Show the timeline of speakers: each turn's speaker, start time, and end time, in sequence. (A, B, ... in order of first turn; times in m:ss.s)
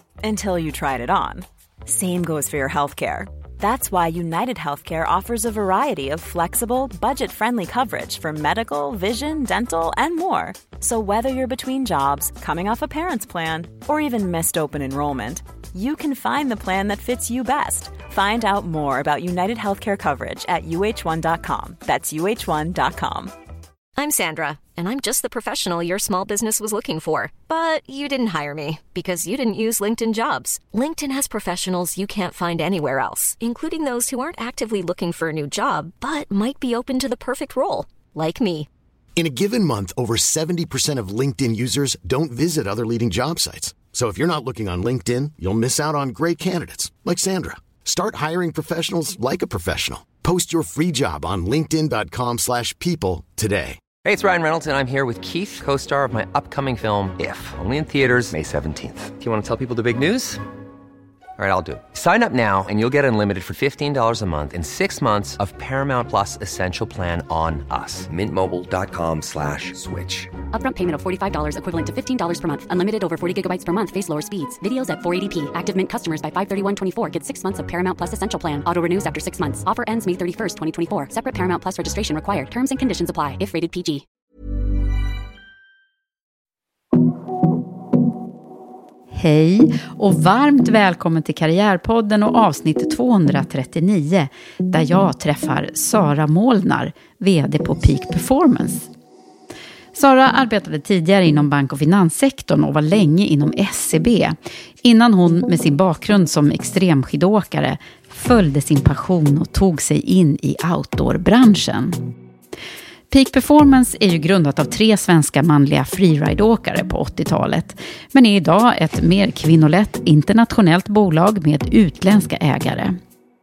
0:00.2-0:23.3 A
0:24.0-0:38.7 B
0:39.2-0:53.8 C
0:54.0-1:00.4 D
1:01.4-1:10.3 D
1:10.5-1:24.0 E
1:29.1-1:38.9 F
1:39.9-1:52.0 F
1:53.1-2:03.0 F